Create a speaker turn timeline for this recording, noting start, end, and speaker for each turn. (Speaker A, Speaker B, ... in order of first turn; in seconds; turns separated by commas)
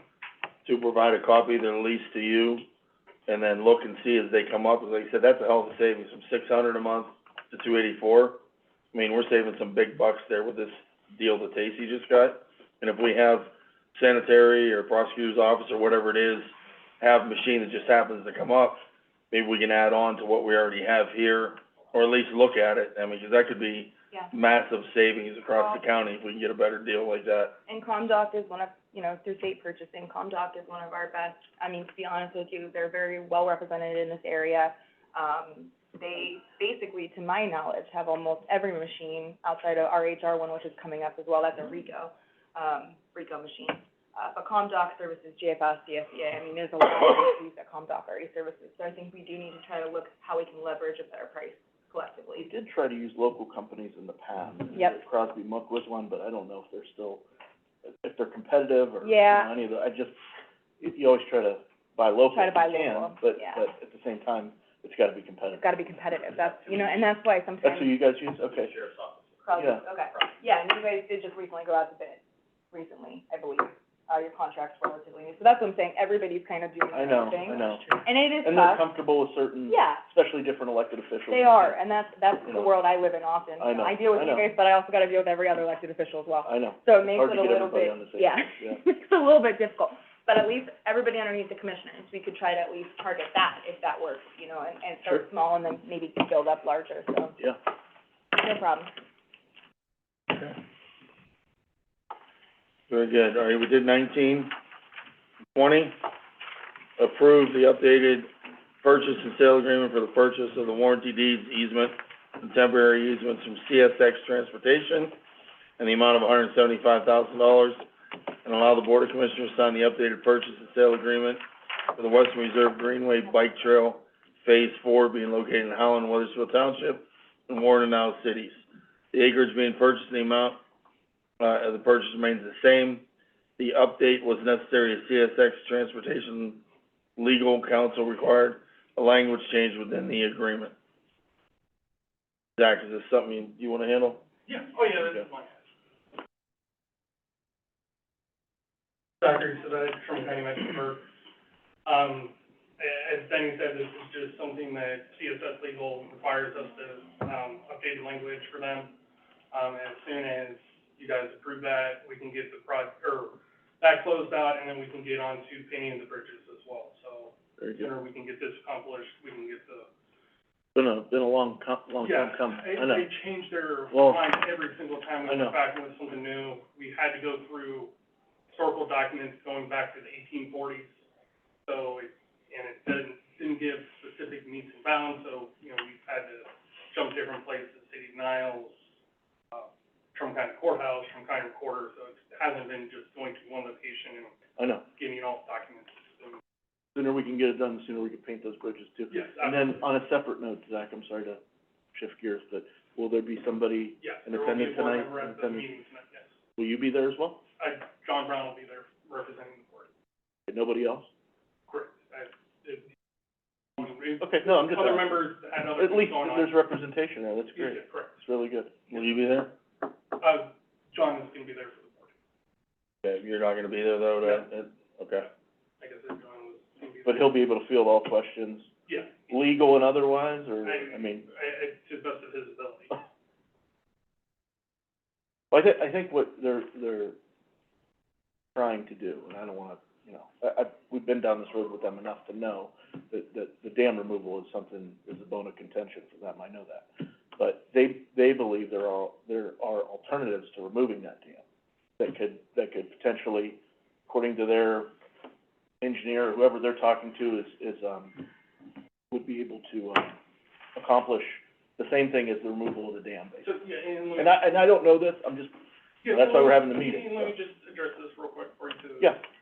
Speaker A: 0.6-2.6, Speaker A: 3.3-8.4, Speaker A: 8.9-18.8, Speaker A: 19.3-27.6, Speaker B: 27.7-52.5, Speaker C: 52.4-57.2, Speaker C: 58.0-60.1, Speaker B: 59.0-59.5, Speaker C: 60.8-65.7, Speaker B: 62.3-63.6, Speaker B: 65.5-68.0, Speaker C: 67.6-68.8, Speaker B: 69.4-72.2, Speaker C: 69.5-69.8, Speaker B: 72.7-78.8, Speaker C: 76.9-77.9, Speaker C: 78.4-81.8, Speaker B: 79.7-80.0, Speaker B: 81.3-97.4, Speaker C: 82.5-82.7, Speaker C: 83.6-84.5, Speaker C: 86.4-88.8, Speaker B: 98.3-98.9, Speaker A: 102.9-104.5, Speaker A: 105.5-106.0, Speaker A: 107.0-108.3, Speaker A: 108.8-115.1, Speaker A: 115.8-117.8, Speaker A: 118.4-121.4, Speaker A: 122.0-130.6, Speaker A: 131.4-133.0, Speaker A: 133.6-136.6, Speaker A: 137.2-140.7, Speaker A: 142.6-144.2, Speaker D: 144.5-145.6, Speaker D: 149.2-151.1, Speaker D: 151.8-158.9, Speaker D: 159.5-169.9, Speaker C: 167.6-167.9, Speaker C: 170.7-173.1, Speaker D: 172.0-177.9, Speaker C: 173.9-174.3, Speaker C: 175.3-175.6, Speaker D: 178.5-180.9, Speaker D: 181.7-188.8, Speaker D: 189.5-194.3, Speaker C: 194.6-194.8, Speaker D: 194.9-196.4, Speaker C: 196.9-201.4, Speaker D: 199.1-199.8, Speaker C: 201.9-205.7, Speaker D: 204.0-206.3, Speaker C: 206.6-207.4, Speaker D: 207.6-209.9, Speaker C: 210.5-211.1, Speaker D: 211.7-212.9, Speaker D: 213.8-216.5, Speaker C: 214.2-218.8, Speaker D: 217.5-218.1, Speaker A: 218.9-219.5, Speaker D: 220.2-222.1, Speaker A: 223.0-225.3, Speaker D: 225.8-227.3, Speaker C: 227.0-228.7, Speaker D: 228.9-229.3, Speaker C: 229.3-231.3, Speaker D: 230.6-233.0, Speaker C: 235.5-237.2, Speaker C: 238.5-251.4, Speaker C: 252.0-254.9, Speaker C: 255.8-258.2, Speaker C: 259.1-260.2, Speaker C: 260.7-263.5, Speaker D: 263.4-264.4, Speaker C: 264.1-267.3, Speaker D: 266.0-269.2